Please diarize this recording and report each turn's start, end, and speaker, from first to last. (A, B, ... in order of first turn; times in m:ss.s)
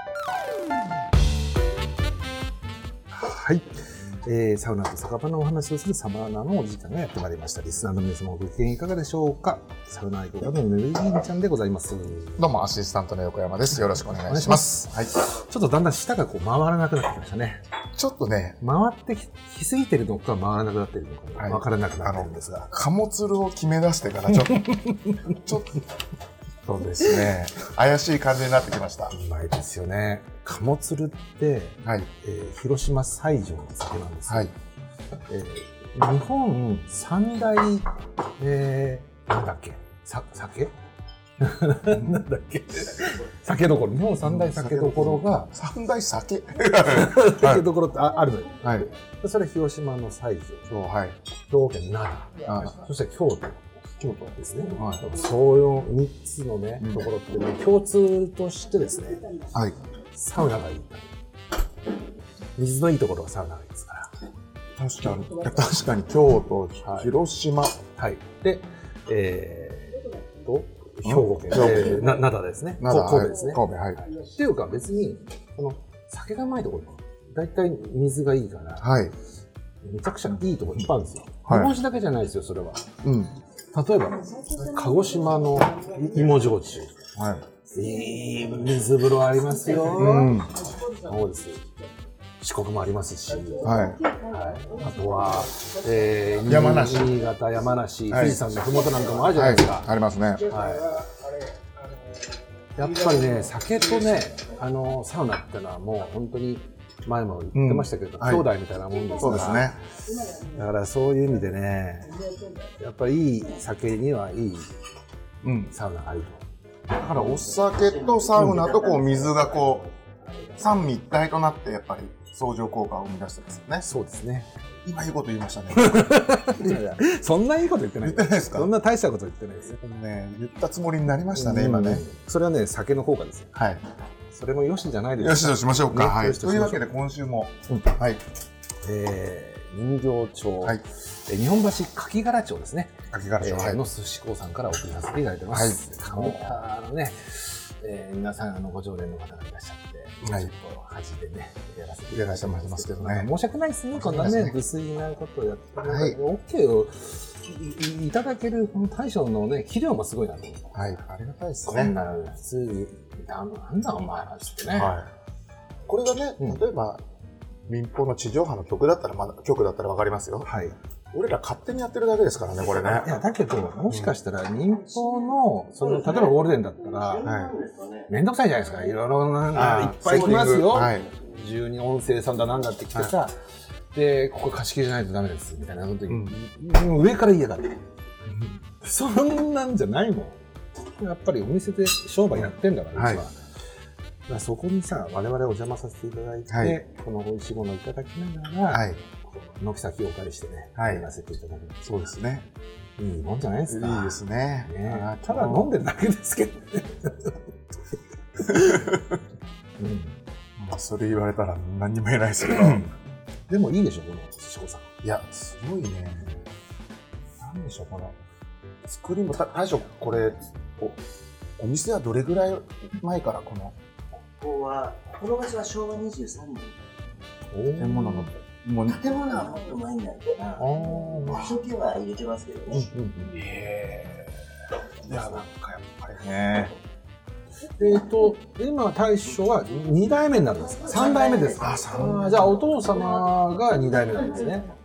0:03.1-0:12.5 A
0:12.4-0:15.1 B
0:14.2-0:17.6 A
0:18.0-0:18.6 B
0:18.6-0:22.7 A
0:21.4-0:25.8 B
0:24.6-0:25.2 A
0:26.6-0:29.1 B
0:29.1-0:34.5 A
0:31.8-0:32.1 B
0:35.3-0:40.7 A
0:41.4-0:45.5 A
0:44.2-0:47.7 B
0:46.9-0:50.7 A
0:48.6-0:48.9 B
0:50.7-0:51.2 B
0:51.5-0:53.6 A
0:52.4-0:52.8 B
0:54.0-0:55.0 B
0:54.4-0:59.3 A
0:56.8-0:57.0 B
0:59.5-0:59.8 B
1:00.1-1:01.1 A
1:02.6-1:04.1 A
1:04.8-1:07.8 B
1:06.8-1:07.1 A
1:07.9-1:13.6 A
1:11.0-1:12.2 B
1:12.8-1:14.0 B
1:14.2-1:18.9 A
1:18.8-1:19.1 B
1:19.8-1:22.9 A
1:21.4-1:21.7 B
1:23.0-1:23.3 B
1:23.7-1:27.1 A
1:27.1-1:27.4 B
1:27.7-1:31.7 A
1:29.9-1:30.5 B
1:32.4-1:39.9 A
1:33.6-1:34.0 B
1:36.4-1:37.1 B
1:38.1-1:38.5 B
1:39.3-1:40.5 B
1:40.5-1:40.9 A
1:42.8-1:49.8 A
1:47.5-1:48.5 B
1:49.1-1:49.8 B
1:50.3-1:52.1 A
1:52.8-1:54.7 A
1:55.4-1:55.7 B
1:55.7-1:56.5 A
1:56.9-1:59.8 B
1:57.4-1:59.9 C
2:00.6-2:03.8 B
2:03.8-2:04.5 A
2:04.8-2:06.3 B
2:05.7-2:09.8 A
2:08.0-2:08.7 B
2:09.8-2:12.0 B
2:11.3-2:13.5 A
2:13.5-2:13.8 B
2:14.3-2:16.8 A
2:15.2-2:18.2 B
2:18.8-2:40.9 A
2:23.1-2:23.8 B
2:25.5-2:26.5 B
2:30.2-2:30.5 B
2:32.1-2:33.3 B
2:34.0-2:34.6 B
2:35.8-2:36.2 B
2:40.7-2:42.0 B
2:41.6-2:44.9 A
2:44.7-2:45.1 B
2:45.8-2:47.0 B
2:47.7-2:50.5 B
2:50.4-2:50.7 A
2:51.1-2:53.2 B
2:52.8-2:57.2 A
2:53.8-2:54.1 B
2:55.8-2:58.1 C
2:57.2-2:57.5 B
2:58.1-3:03.4 A
2:59.5-3:01.1 B
3:00.0-3:01.4 C
3:03.9-3:07.8 A
3:06.1-3:06.3 B
3:08.3-3:08.5 B
3:08.8-3:10.4 A
3:11.0-3:13.4 A
3:12.9-3:13.2 B
3:14.3-3:21.8 A
3:16.5-3:16.8 B
3:18.7-3:19.0 B
3:20.8-3:21.1 B
3:21.8-3:22.4 B
3:23.0-3:27.4 A
3:23.7-3:25.7 B
3:28.4-3:29.0 A
3:28.5-3:29.0 B
3:29.8-3:30.2 A
3:30.6-3:32.9 B
3:33.5-3:34.9 A
3:35.0-3:36.4 B
3:37.4-3:38.2 B
3:38.8-3:41.0 B
3:41.6-3:43.7 B
3:44.4-3:46.8 C
3:47.5-3:48.3 A
3:47.8-3:49.0 B
3:48.9-3:52.9 C
3:50.6-3:51.6 A
3:52.7-3:54.3 B
3:52.9-3:53.4 A
3:55.0-3:56.7 B
3:57.8-4:04.7 A
4:00.9-4:01.8 C
4:01.6-4:02.5 B